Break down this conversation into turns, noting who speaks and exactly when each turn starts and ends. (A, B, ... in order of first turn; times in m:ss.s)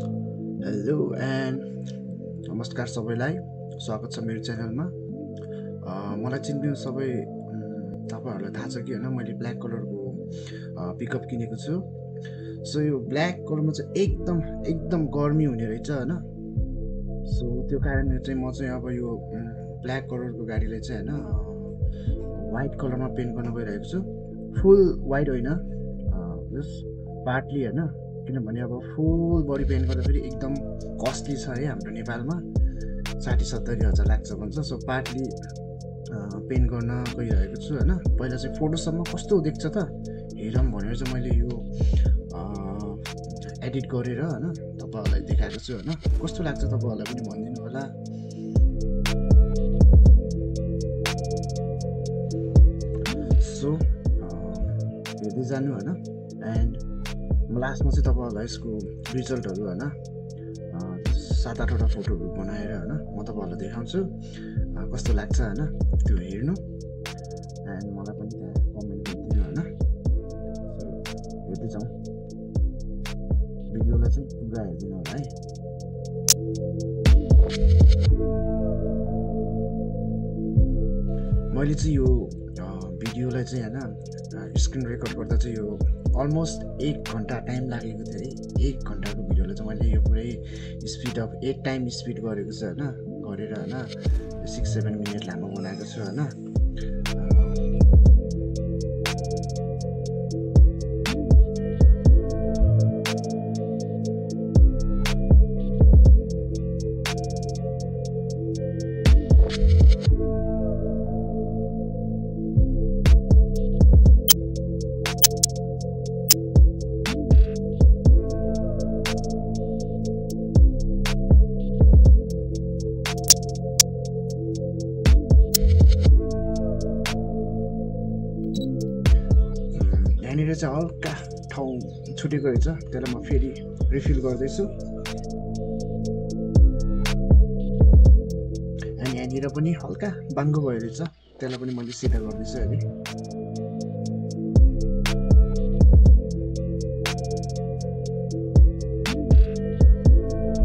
0:00.6-0:01.8 A
0:02.4-0:05.0 A
0:05.8-0:11.9 A
0:12.6-0:16.3 A
0:17.2-0:21.8 A
0:22.3-0:32.5 A
0:33.2-0:35.4 A
0:36.1-0:48.0 A
0:53.4-0:56.8 A
0:57.5-1:00.0 A
1:00.7-1:06.6 A
1:07.6-1:09.7 A
1:10.7-1:11.9 A
1:13.7-1:15.4 A
1:21.5-1:36.4 A
1:37.2-1:37.8 A
2:09.7-2:14.7 A
2:19.0-2:22.9 A